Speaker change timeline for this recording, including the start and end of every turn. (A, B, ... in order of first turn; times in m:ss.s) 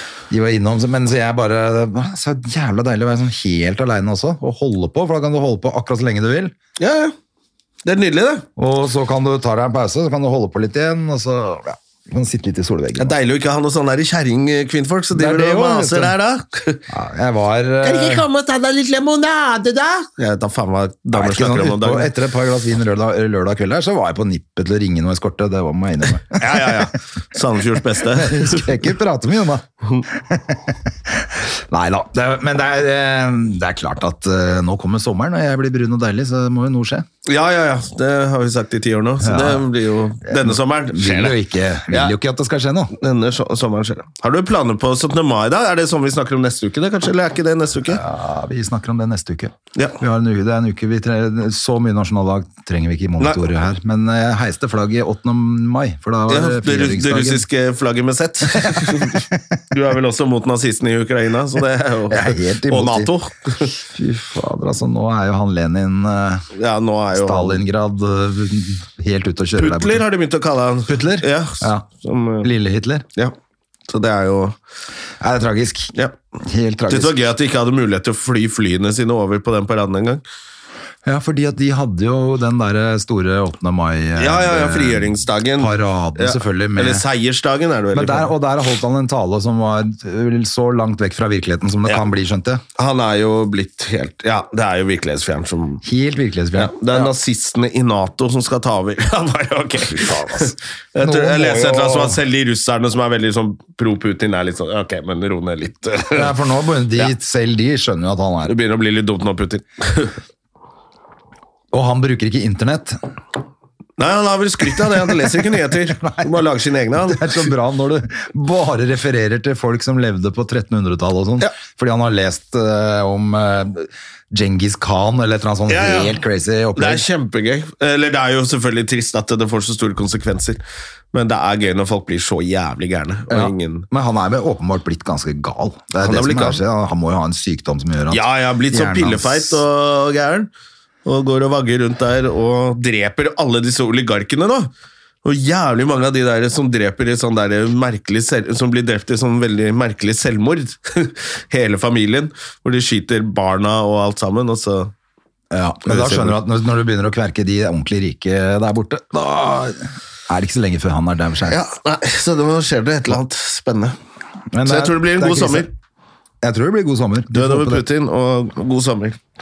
0:00.3-0:06.5 A
0:06.8-0:07.1 B
0:07.8-0:08.5 B
0:08.6-0:13.2 A
0:13.0-0:16.9 B
0:15.1-0:16.1 A
0:16.9-0:18.3 A
0:17.8-0:22.1 B
0:21.1-0:26.9 A
0:26.3-0:28.7 B
0:27.8-0:37.1 A
0:37.3-0:42.1 B
0:39.2-0:39.7 A
0:40.3-0:42.9 A
0:43.0-0:48.0 B
0:47.9-0:57.4 A
0:56.3-1:03.7 B
0:58.5-0:59.4 A
1:02.1-1:06.4 A
1:06.5-1:07.6 B
1:07.2-1:10.0 A
1:09.6-1:12.5 B
1:10.9-1:11.9 A
1:12.4-1:13.1 A
1:13.9-1:14.6 B
1:15.2-1:17.3 A
1:16.9-1:20.2 B
1:21.0-1:27.0 A
1:24.2-1:28.3 B
1:27.9-1:32.6 A
1:32.8-1:35.8 B
1:35.8-1:37.1 A
1:36.6-1:46.3 B
1:39.9-1:42.2 A
1:46.1-1:48.6 A
1:48.5-1:50.2 B
1:51.7-1:53.0 A
1:54.0-1:57.5 B
1:56.0-1:56.3 A
1:57.1-2:07.0 A
2:05.7-2:06.2 B
2:06.8-2:10.6 B
2:11.1-2:13.9 B
2:13.3-2:19.6 A
2:16.0-2:16.6 B
2:18.1-2:20.5 B
2:21.0-2:24.7 B
2:25.2-2:34.9 B
2:35.5-2:41.6 A
2:35.8-2:36.4 B
2:41.5-2:44.0 B
2:44.5-2:45.7 A
2:44.6-2:45.7 B
2:46.4-2:47.8 A
2:47.3-2:49.2 B